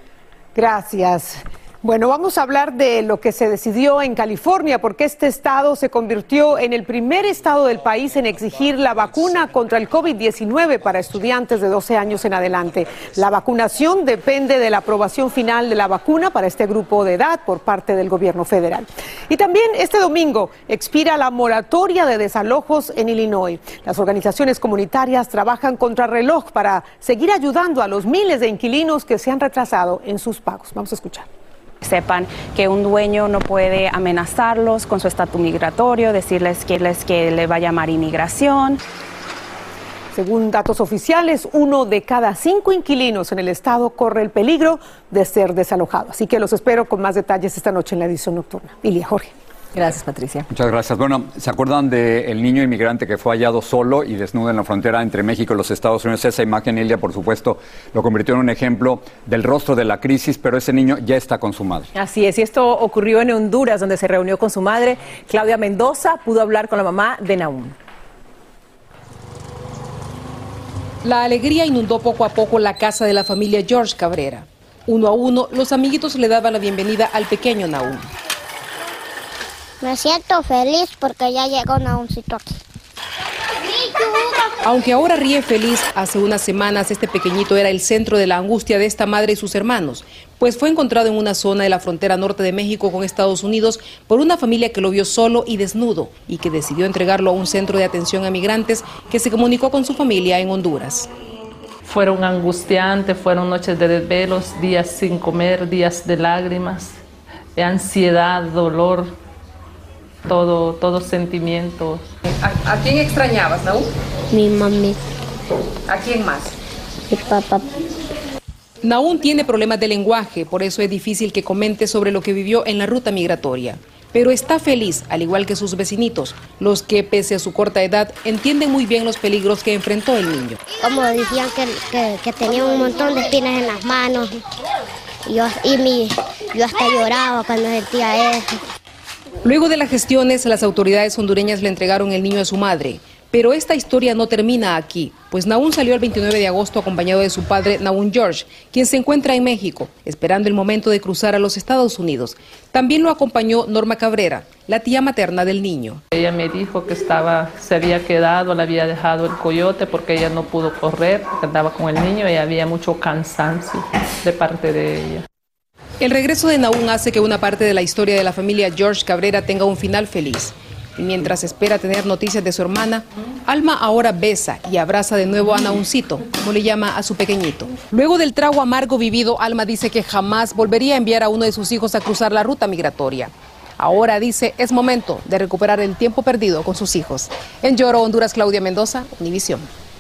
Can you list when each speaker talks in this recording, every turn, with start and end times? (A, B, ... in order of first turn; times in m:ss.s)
0:00.6-0:31.3 A
0:31.8-0:38.8 B
0:40.1-0:49.3 A
0:49.7-0:50.5 C
0:50.5-1:01.9 D
1:02.0-1:07.8 C
1:11.0-1:18.1 E
1:19.8-1:22.6 F
1:24.6-1:41.1 E
1:41.8-1:47.0 G
1:47.6-1:49.2 G
1:50.3-1:52.1 G
1:52.3-1:53.9 E
1:54.3-1:55.0 F
1:55.9-1:56.6 E
1:57.1-1:57.7 F
1:58.8-2:10.6 E
2:10.8-2:14.4 F
2:15.2-2:18.6 F
2:19.4-2:36.0 E
2:36.1-2:45.2 G
2:46.0-3:09.7 E